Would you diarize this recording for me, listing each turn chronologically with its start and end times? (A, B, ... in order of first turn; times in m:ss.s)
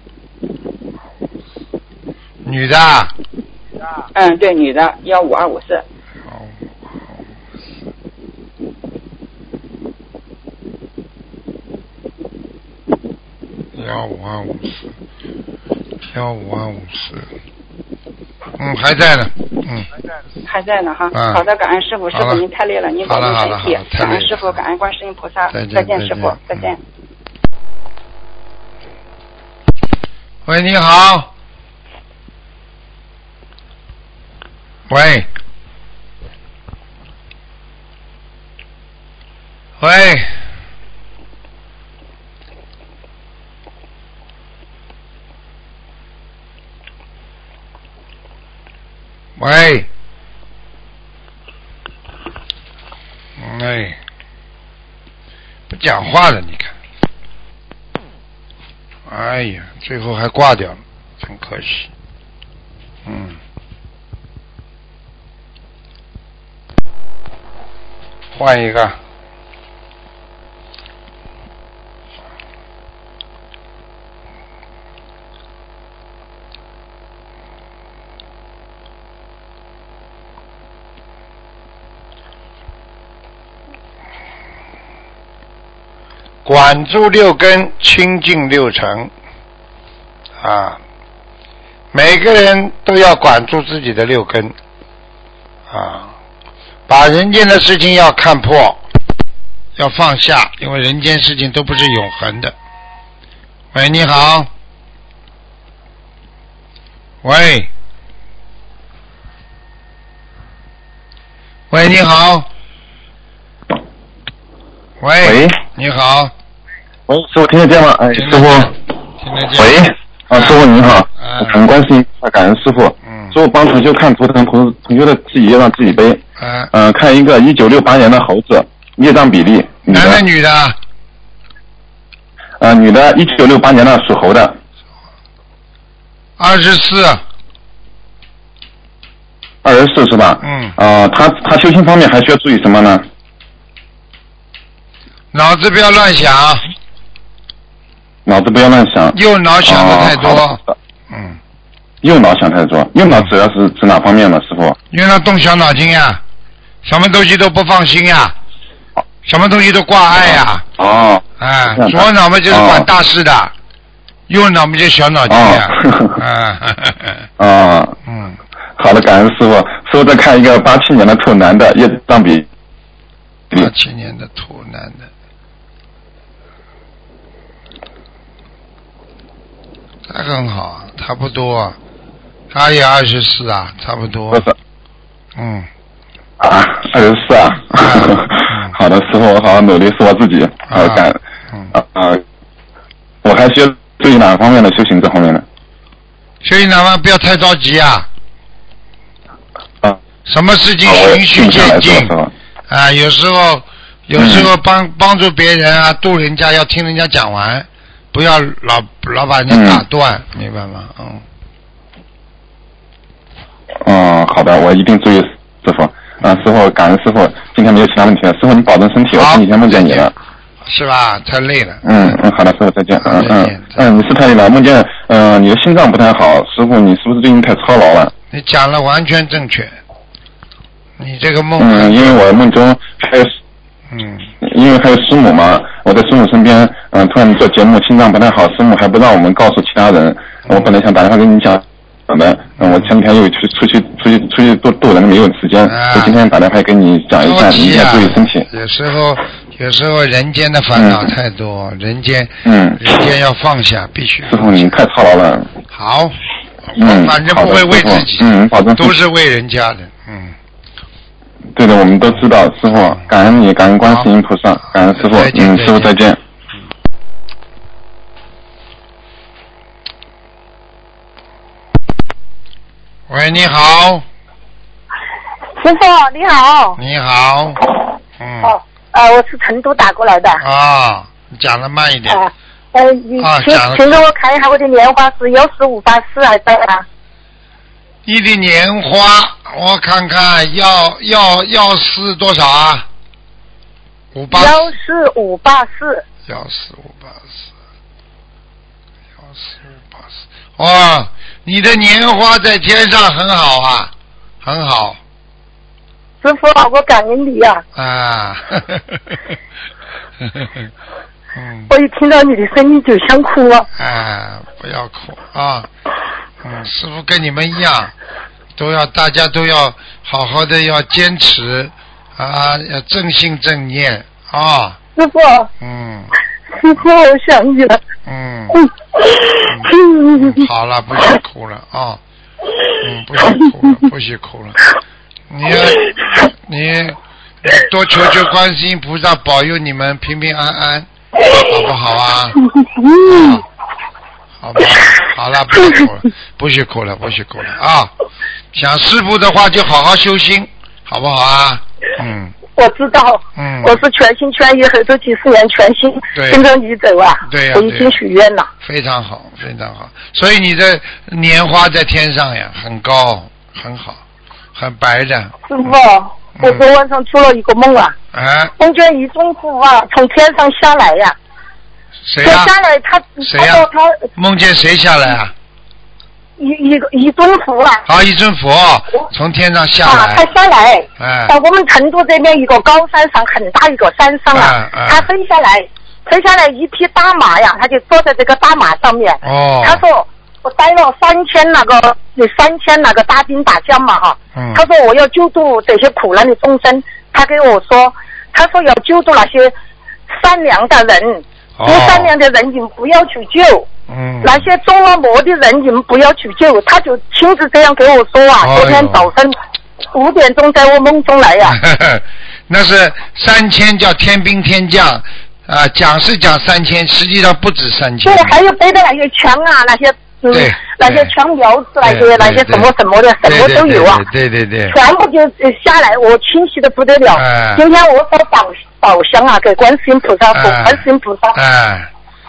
0:02.4-0:03.1 A
0:04.1-0:05.8 B
0:06.3-0:07.2 A
0:13.7-0:14.9 A
0:16.1-0:17.3 A
0:18.6-0:19.9 A
0:20.5-0:26.8 B
0:21.1-0:21.4 A
0:22.1-0:22.4 A
0:23.0-0:24.6 A
0:25.5-0:26.6 A
0:30.4-0:31.3 A
0:34.9-0:35.3 A
0:39.8-0:40.3 A
0:49.4-0:49.9 A
0:53.4-0:54.0 A
0:55.7-0:56.7 A
0:59.1-1:01.9 A
1:03.0-1:03.4 A
1:08.3-1:09.0 A
1:26.4-1:29.1 A
1:30.4-1:30.8 A
1:31.9-1:34.6 A
1:35.7-1:36.1 A
1:36.9-1:38.8 A
1:39.8-1:42.5 A
1:43.7-1:44.5 A
1:47.2-1:47.7 A
1:51.7-1:52.5 A
1:55.0-1:56.3 A
1:55.2-1:55.6 C
1:57.1-1:58.7 C
1:58.1-2:00.6 A
1:59.5-2:06.2 C
2:01.2-2:01.6 A
2:03.0-2:03.4 A
2:06.4-2:06.7 A
2:06.7-2:10.2 C
2:09.9-2:10.8 A
2:12.6-2:14.6 C
2:16.4-2:17.2 A
2:19.6-2:23.0 C
2:20.4-2:20.8 A
2:25.3-2:26.7 A
2:28.2-2:30.5 C
2:29.1-2:31.4 A
2:32.0-2:34.8 C
2:33.1-2:33.3 A
2:34.9-2:36.2 A
2:36.8-2:38.4 A
2:39.2-2:40.6 A
2:40.3-2:41.2 C
2:41.4-2:43.5 A
2:41.7-2:42.9 C
2:44.3-2:47.2 A
2:45.3-2:46.2 C
2:47.4-2:48.0 C
2:48.0-2:48.4 A
2:48.8-2:52.4 C
2:53.5-2:55.1 A
3:00.1-3:01.8 A
3:02.5-3:04.5 A
3:05.4-3:05.7 A
3:06.4-3:11.2 C
3:07.7-3:08.8 A
3:10.7-3:11.7 A
3:11.7-3:12.2 C
3:13.2-3:15.4 C
3:16.4-3:18.1 A
3:20.2-3:22.1 A
3:20.8-3:22.3 C
3:22.7-3:31.2 A
3:24.2-3:24.5 C
3:29.5-3:29.8 C
3:33.8-3:40.1 C
3:39.2-3:40.1 A
3:40.6-3:42.2 A
3:41.8-3:48.1 C
3:43.0-3:43.9 A
3:48.3-3:49.8 A
3:51.0-3:52.2 A
3:51.6-3:53.3 C
3:53.9-3:54.3 A
3:54.4-4:08.5 C
4:00.4-4:00.7 A
4:02.6-4:02.9 A
4:05.6-4:06.2 A
4:07.2-4:14.7 A
4:10.8-4:11.1 C
4:12.4-4:12.9 C
4:14.3-4:15.5 C
4:15.7-4:20.4 A
4:16.8-4:18.9 C
4:21.5-4:26.2 C
4:22.1-4:23.1 A
4:23.8-4:24.1 A
4:24.6-4:26.0 A
4:33.1-4:34.0 A
4:35.6-4:36.8 D
4:36.8-4:37.7 A
4:38.2-4:38.5 A
4:38.4-4:40.4 D
4:40.4-4:42.2 A
4:42.1-4:46.8 D
4:43.2-4:44.1 A
4:48.0-4:52.9 A
4:54.1-4:54.7 A
4:54.3-4:56.0 D
4:56.3-4:57.4 A
4:59.2-5:03.9 A
5:04.4-5:05.0 A
5:06.2-5:07.6 D
5:07.7-5:09.4 A
5:10.2-5:10.7 A
5:11.3-5:11.7 A
5:11.7-5:13.7 D
5:13.7-5:15.7 A
5:16.4-5:17.9 A
5:18.6-5:24.8 A
5:24.9-5:25.5 D
5:25.6-5:26.1 A
5:26.5-5:27.8 D
5:28.0-5:28.6 A
5:29.2-5:30.3 D
5:29.5-5:32.0 A
5:32.8-5:34.6 A
5:35.3-5:42.4 A
5:42.6-5:43.3 D
5:43.0-5:43.4 A
5:44.4-5:47.9 A
5:48.5-5:52.4 A
5:52.5-5:58.5 D
5:53.4-5:53.8 A
5:56.1-5:56.4 A
5:57.2-5:58.0 A
5:58.6-6:04.0 A
6:04.5-6:05.7 A
6:05.5-6:08.0 D
6:08.1-6:08.5 A
6:08.6-6:11.2 D
6:12.0-6:12.5 A
6:12.2-6:14.0 D
6:13.2-6:15.3 A
6:16.4-6:17.8 D
6:17.8-6:20.3 A
6:19.8-6:39.5 D
6:21.0-6:21.3 A
6:24.3-6:25.1 A
6:29.2-6:29.8 A
6:34.3-6:34.6 A
6:40.1-6:43.7 D
6:41.6-6:42.1 A
6:43.9-6:44.5 A
6:44.2-6:49.4 D
6:48.4-6:49.1 A
6:49.9-6:51.6 D
6:51.4-6:58.4 A
6:58.0-7:04.0 D
7:00.3-7:01.1 A
7:01.8-7:02.7 A
7:03.2-7:04.8 A
7:04.7-7:11.4 D
7:07.1-7:07.6 A
7:10.3-7:11.9 A